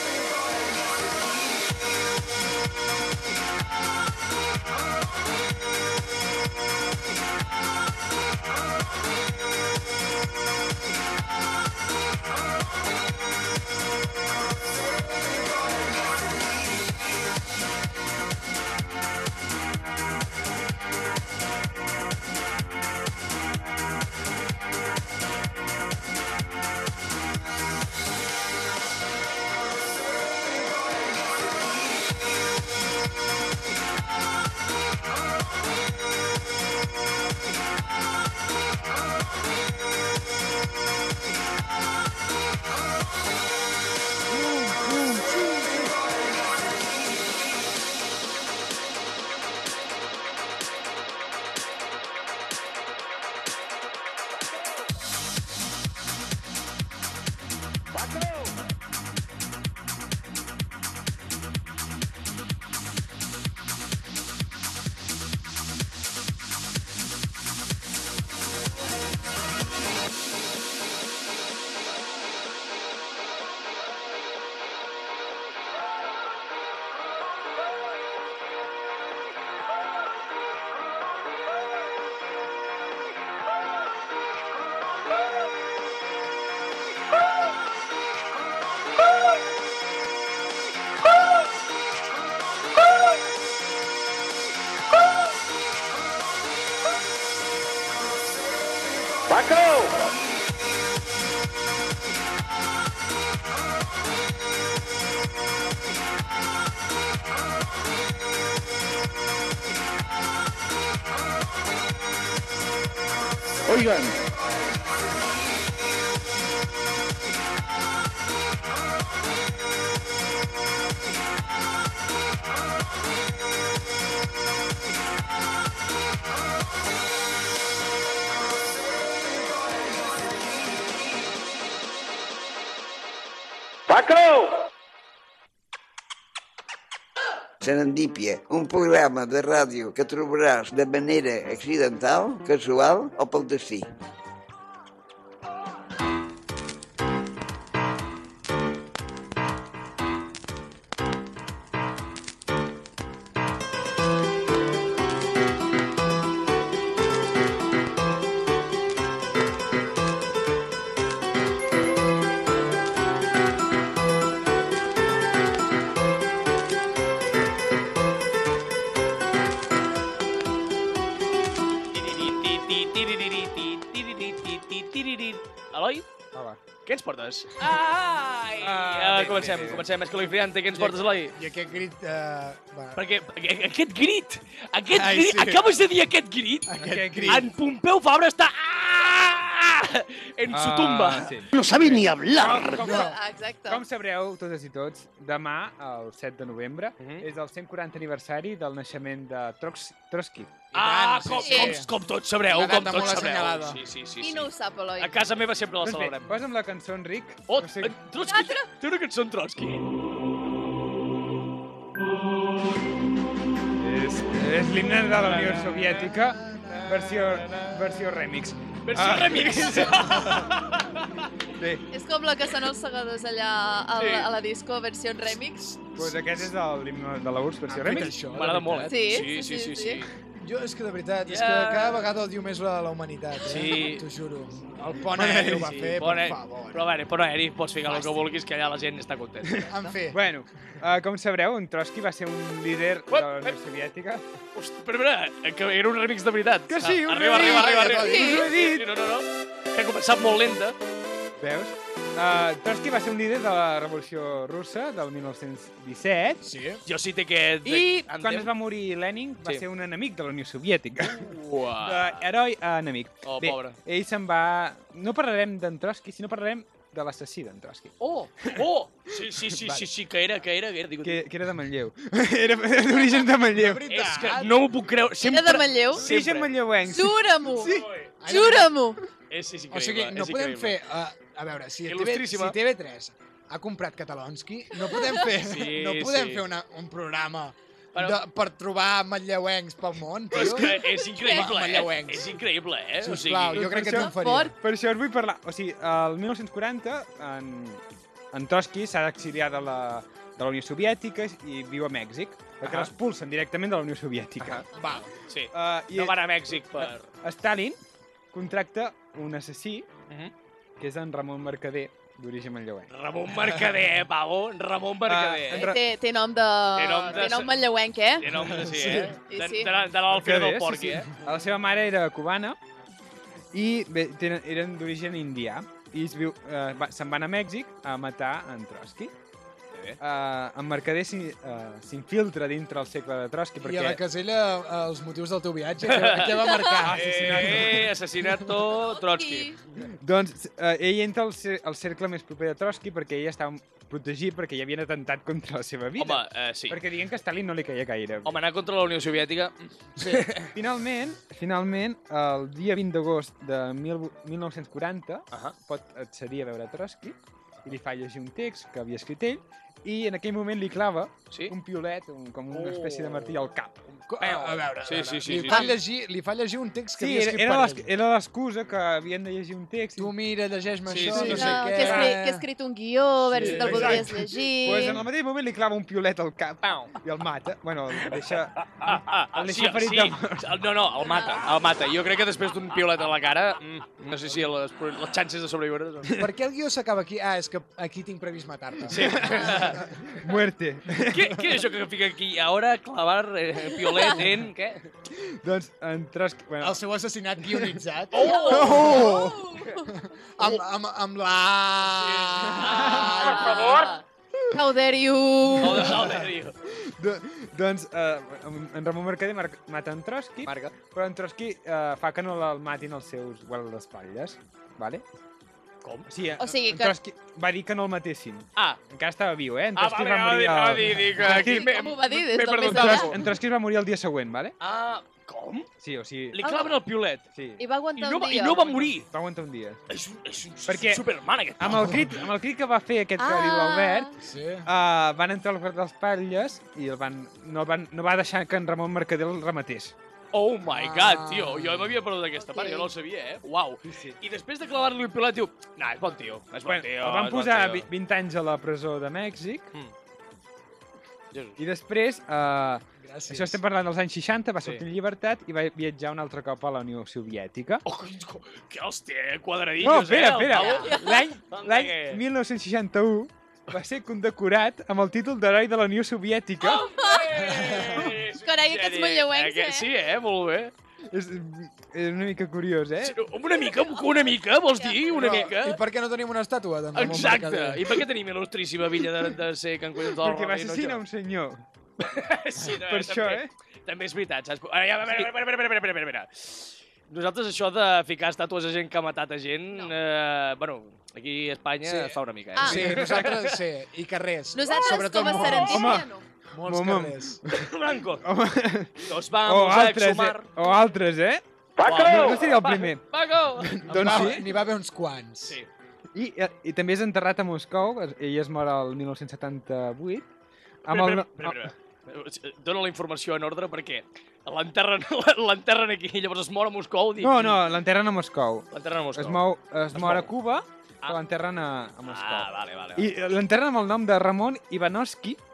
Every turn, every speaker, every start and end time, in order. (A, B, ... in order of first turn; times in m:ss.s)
0:57.9-0:58.5 A
1:39.3-1:40.1 A
2:13.9-2:14.7 A
2:17.6-2:23.9 B
2:51.9-2:56.0 C
2:56.8-3:01.4 C
2:58.6-2:59.8 D
3:00.7-3:03.0 E
3:03.0-3:11.7 C
3:04.9-3:05.6 E
3:06.7-3:07.4 E
3:06.8-3:07.4 D
3:10.5-3:13.1 D
3:12.4-3:13.8 F
3:12.7-3:13.2 E
3:13.7-3:20.6 D
3:17.0-3:17.2 C
3:20.7-3:21.9 E
3:20.7-3:26.3 C
3:21.4-3:21.8 F
3:22.5-3:23.8 E
3:24.2-3:25.2 F
3:25.8-3:28.0 D
3:27.5-3:29.8 C
3:28.3-3:28.6 F
3:33.8-3:40.1 D
3:35.2-3:36.0 C
3:35.3-3:37.1 E
3:36.7-3:37.8 C
3:38.8-3:41.2 C
3:40.0-3:40.5 E
3:41.6-3:41.8 D
3:41.9-3:45.7 F
3:44.0-3:44.3 C
3:45.8-3:46.5 E
3:45.9-3:48.2 D
3:47.7-3:48.9 E
3:48.3-3:50.1 C
3:48.9-3:50.0 F
3:50.4-3:56.8 E
3:51.3-3:52.1 C
3:53.4-3:54.0 C
3:55.2-3:55.7 D
3:55.3-3:59.7 C
3:57.9-3:58.2 E
3:59.6-4:04.2 D
3:59.6-4:00.2 E
4:03.1-4:03.6 C
4:04.5-4:10.8 C
4:06.7-4:08.9 D
4:07.3-4:08.5 E
4:08.0-4:08.4 F
4:11.4-4:16.4 D
4:16.4-4:16.8 E
4:16.8-4:18.5 C
4:17.6-4:21.3 D
4:21.0-4:22.2 C
4:21.8-4:28.6 D
4:23.2-4:23.8 C
4:28.0-4:31.2 C
4:29.5-4:29.8 D
4:31.0-4:33.8 D
4:33.5-4:34.6 E
4:33.9-4:36.6 C
4:35.2-4:36.1 F
4:36.0-4:37.9 D
4:36.8-4:39.0 F
4:37.7-4:38.1 C
4:38.2-4:38.7 E
4:39.3-4:40.8 C
4:39.7-4:52.4 E
4:41.8-4:42.6 C
4:45.3-4:46.4 C
4:47.9-4:48.2 C
4:50.3-4:53.7 C
4:50.7-4:51.5 F
4:53.0-4:54.6 E
4:53.5-4:57.8 D
4:53.8-4:54.5 F
4:58.3-5:04.6 D
5:04.7-5:05.1 E
5:04.7-5:05.1 F
5:05.3-5:07.1 C
5:05.5-5:07.8 D
5:08.3-5:09.9 D
5:10.8-5:12.9 D
5:12.9-5:15.6 C
5:15.1-5:15.8 D
5:15.5-5:18.3 F
5:16.8-5:17.5 C
5:18.2-5:21.2 C
5:18.3-5:19.1 E
5:19.2-5:19.7 F
5:20.1-5:22.6 D
5:23.5-5:29.1 D
5:29.7-5:30.0 C
5:30.0-5:34.0 D
5:33.6-5:37.6 E
5:35.8-5:39.8 C
5:36.4-5:36.8 F
5:36.8-5:37.9 D
5:38.7-5:39.6 F
5:40.0-5:48.3 D
5:46.0-5:46.8 C
5:48.2-5:50.5 C
5:50.0-5:50.3 E
5:50.5-6:03.9 D
6:01.3-6:01.5 C
6:02.5-6:03.4 C
6:04.0-6:05.7 C
6:04.1-6:07.9 E
6:07.0-6:10.1 D
6:10.0-6:12.4 E
6:10.8-6:11.5 C
6:11.0-6:12.2 D
6:11.1-6:15.0 F
6:13.3-6:14.1 E
6:13.3-6:20.5 D
6:16.6-6:16.9 C
6:18.7-6:26.1 C
6:21.0-6:21.4 F
6:26.2-6:29.9 E
6:28.9-6:29.8 C
6:29.0-6:31.4 D
6:31.1-6:34.9 C
6:35.1-6:36.8 D
6:36.6-6:39.4 E
6:37.5-6:37.7 D
6:38.1-6:39.1 C
6:38.2-6:39.9 F
6:38.7-6:39.2 D
6:39.9-6:43.9 E
6:41.8-6:43.9 C
6:42.6-6:46.0 F
6:45.6-6:46.6 C
6:46.6-6:55.0 D
6:50.4-6:50.7 C
6:55.8-6:56.1 C
6:56.1-7:01.7 D
6:56.4-6:57.0 F
6:59.7-7:03.3 C
7:01.2-7:03.1 F
7:02.6-7:04.6 D
7:04.6-7:05.7 C
7:05.8-7:06.4 D
7:06.3-7:07.3 C
7:06.4-7:06.7 F
7:07.3-7:07.6 D
7:07.6-7:08.9 F
7:08.0-7:09.1 C
7:09.1-7:09.8 D
7:09.9-7:12.0 C
7:10.7-7:11.0 D
7:11.6-7:14.1 D
7:11.7-7:12.1 E
7:13.2-7:14.2 F
7:14.2-7:14.7 E
7:14.6-7:19.9 D
7:20.3-7:27.9 C
7:20.6-7:21.9 E
7:22.4-7:22.9 F
7:23.8-7:24.2 D
7:26.6-7:29.7 D
7:31.3-7:31.6 C
7:31.6-7:37.8 D
7:33.0-7:33.6 E
7:37.8-7:41.0 C
7:39.8-7:46.9 D
7:40.6-7:41.2 F
7:41.5-7:42.2 C
7:46.6-7:50.7 C
7:46.6-7:47.5 F
7:47.4-7:48.0 E
7:48.2-7:49.9 F
7:51.1-7:53.2 D
7:53.0-7:55.8 C
7:53.7-7:55.4 F
7:55.1-7:58.0 E
7:56.9-8:01.0 C
8:00.1-8:01.6 D
8:02.0-8:13.6 C
8:02.8-8:03.5 D
8:11.8-8:15.9 E
8:12.5-8:13.0 F
8:12.7-8:13.2 D
8:14.5-8:16.2 F
8:15.0-8:15.6 C
8:15.5-8:16.1 D
8:16.5-8:17.4 E
8:16.6-8:17.7 D
8:17.5-8:18.2 C
8:18.2-8:21.4 D
8:19.0-8:20.6 C
8:21.8-8:22.5 A
8:21.8-8:24.5 C
8:22.0-8:23.0 D
8:23.6-8:24.5 D
8:23.9-8:25.6 E
8:26.1-8:30.3 D
8:30.8-8:31.7 D
8:30.9-8:37.8 C
8:37.2-8:45.4 D
8:38.7-8:40.3 C
8:42.0-8:43.1 C